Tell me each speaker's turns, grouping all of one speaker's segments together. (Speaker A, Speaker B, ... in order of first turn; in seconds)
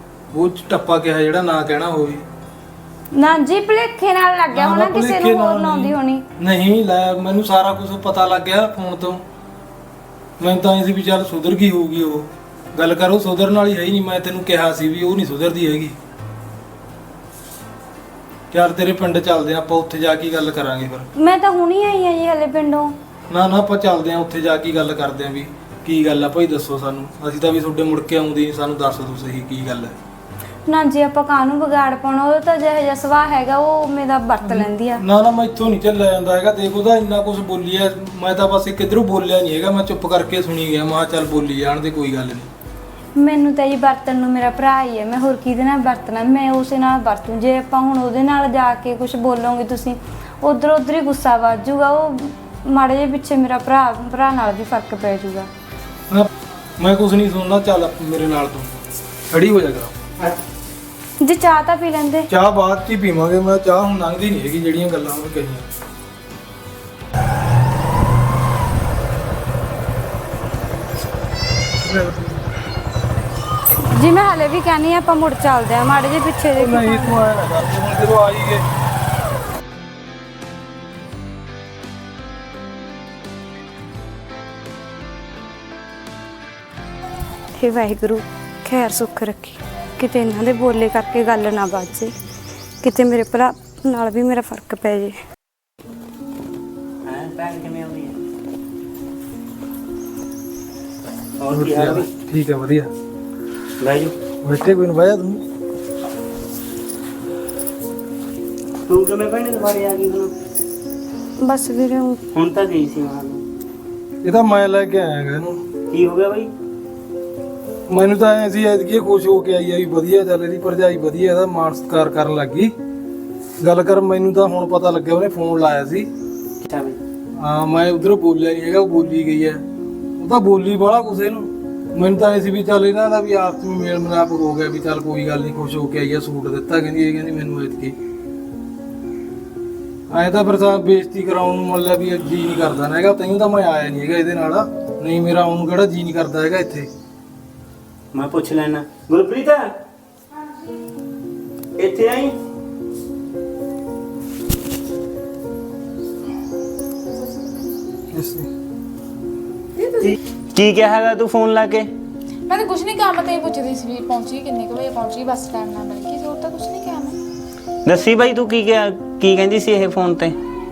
Speaker A: 0.3-2.2, 4.5-9.2, 10.4-16.0, 18.5-21.1, 23.3-30.0, 34.4-42.5, 56.1-58.7, 59.3-60.0, 62.3-65.7, 71.8-72.3, 76.6-78.7, 101.5-102.9, 104.4-105.4, 114.2-115.6, 117.9-122.7, 123.6-126.1, 127.4-129.6, 130.2-138.0, 140.1-146.9, 158.1-158.5
Speaker B: 3.1-6.2, 21.2-23.0, 30.7-35.0, 43.2-55.5, 61.2-62.3, 73.9-77.2, 87.6-92.1, 92.8-95.2, 111.4-112.2
Speaker C: 97.0-98.2, 101.4-102.1, 103.8-104.1, 108.9-110.3, 112.3-113.4, 115.9-116.5, 126.6-127.0, 148.1-149.7, 151.8-152.4, 160.0-161.9, 167.9-170.4
Speaker D: 159.8-160.1, 162.5-167.2